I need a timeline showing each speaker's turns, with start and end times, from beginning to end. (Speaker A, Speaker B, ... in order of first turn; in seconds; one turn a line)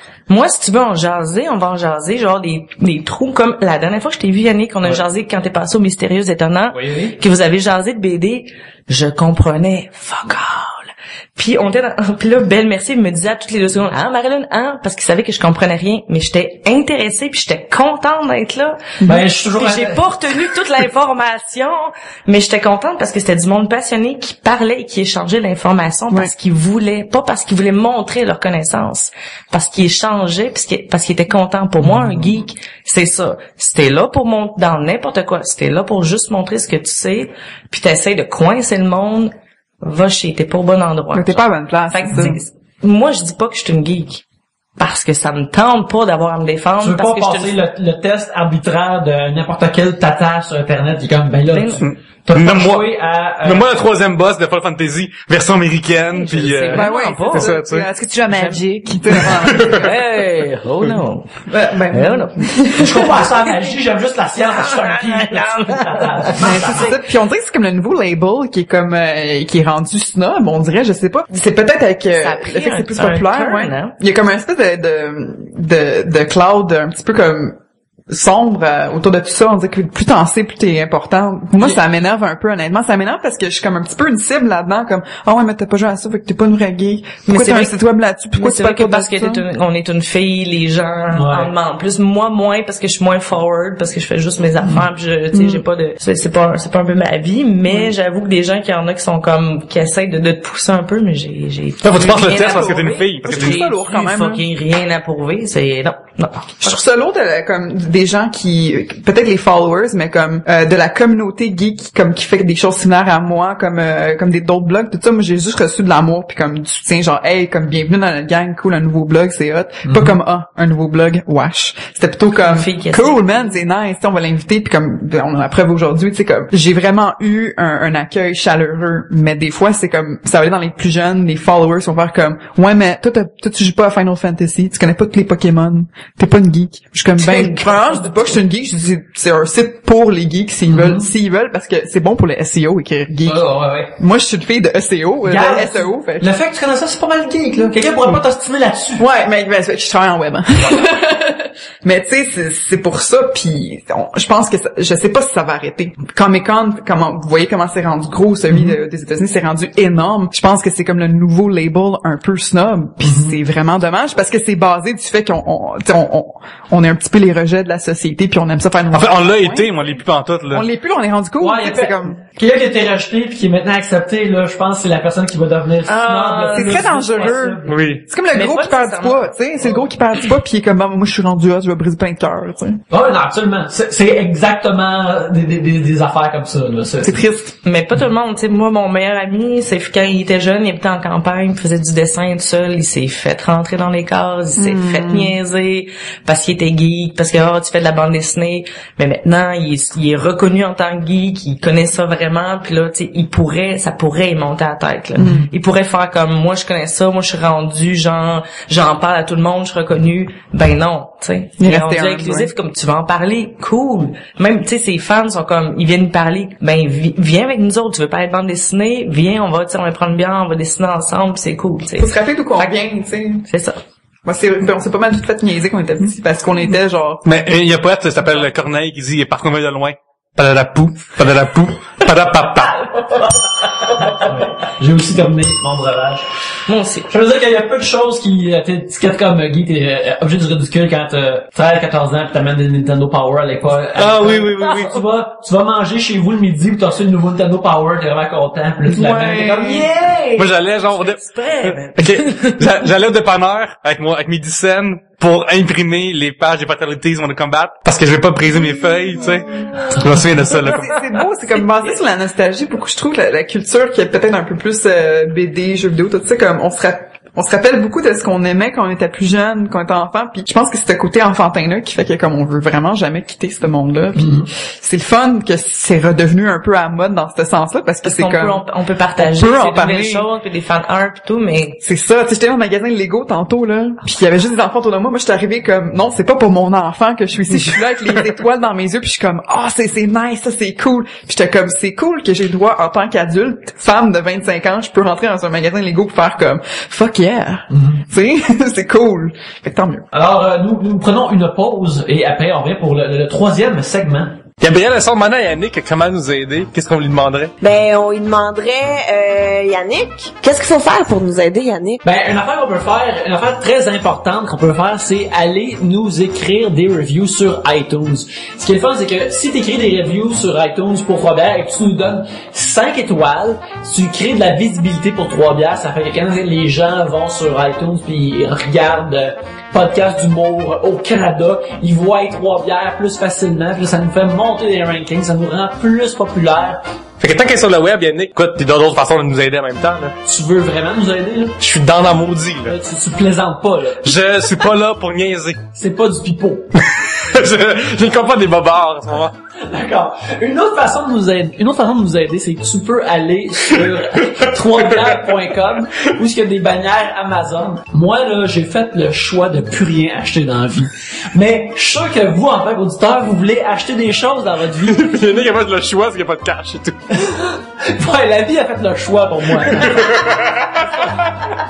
Speaker A: 0.3-19.0
Speaker B: 6.7-7.2
Speaker B: 19.1-20.0
Speaker A: 19.6-44.2
Speaker B: 31.9-32.2
Speaker C: 41.1-42.4
Speaker A: 44.8-47.6
Speaker B: 46.8-53.8
Speaker A: 51.5-51.8
Speaker D: 51.8-52.9
Speaker D: 53.4-57.9
Speaker A: 56.1-57.6
Speaker C: 56.7-59.9
Speaker A: 58.3-58.6
Speaker D: 59.2-59.9
Speaker A: 59.2-62.5
Speaker C: 61.5-63.3
Speaker B: 62.8-67.0
Speaker A: 64.5-67.0
Speaker C: 66.4-89.4
Speaker A: 72.1-74.0
Speaker A: 87.3-87.8
Speaker A: 88.3-106.8
Speaker B: 91.1-91.5
Speaker C: 95.3-95.6
Speaker D: 101.8-103.6
Speaker C: 102.1-104.4
Speaker C: 106.6-146.3
Speaker B: 119.8-120.2
Speaker A: 122.4-123.5
Speaker A: 137.2-138.4
Speaker B: 140.7-141.1
Speaker B: 143.2-143.9
Speaker B: 145.2-149.1
Speaker C: 149.0-169.8
Speaker B: 158.5-158.8
Speaker B: 163.0-163.4
Speaker D: 168.9-170.7
Speaker C: 170.5-172.2
Speaker B: 171.4-177.8
Speaker A: 175.9-177.3
Speaker C: 176.5-182.8
Speaker D: 177.7-178.0
Speaker A: 178.3-179.3
Speaker B: 179.6-179.9
Speaker B: 182.9-187.2
Speaker C: 187.0-187.6
Speaker A: 187.6-222.8
Speaker C: 194.6-195.4
Speaker C: 205.2-205.5
Speaker C: 211.6-212.5
Speaker C: 222.0-223.5
Speaker A: 223.4-223.8
Speaker C: 224.2-227.2
Speaker D: 227.2-232.9
Speaker A: 233.9-234.3
Speaker B: 234.1-236.3
Speaker A: 236.7-237.1
Speaker B: 237.1-250.3
Speaker D: 243.9-245.0
Speaker C: 248.9-249.9
Speaker A: 250.2-252.6
Speaker D: 250.3-261.0
Speaker C: 258.6-259.8
Speaker C: 260.5-278.6
Speaker B: 274.2-274.5
Speaker A: 278.0-281.8
Speaker C: 279.2-280.3
Speaker C: 281.8-300.1
Speaker B: 297.7-298.0
Speaker B: 300.1-304.4
Speaker D: 304.6-307.5
Speaker E: 307.6-312.0
Speaker B: 312.0-336.8
Speaker D: 337.2-340.1
Speaker B: 340.2-341.6
Speaker D: 341.6-342.8
Speaker B: 342.7-344.2
Speaker D: 344.0-345.6
Speaker B: 345.7-346.7
Speaker D: 346.8-349.3
Speaker B: 349.6-365.2
Speaker D: 353.8-354.2
Speaker D: 354.7-355.2
Speaker D: 364.9-367.0
Speaker B: 367.1-370.2
Speaker D: 369.8-370.7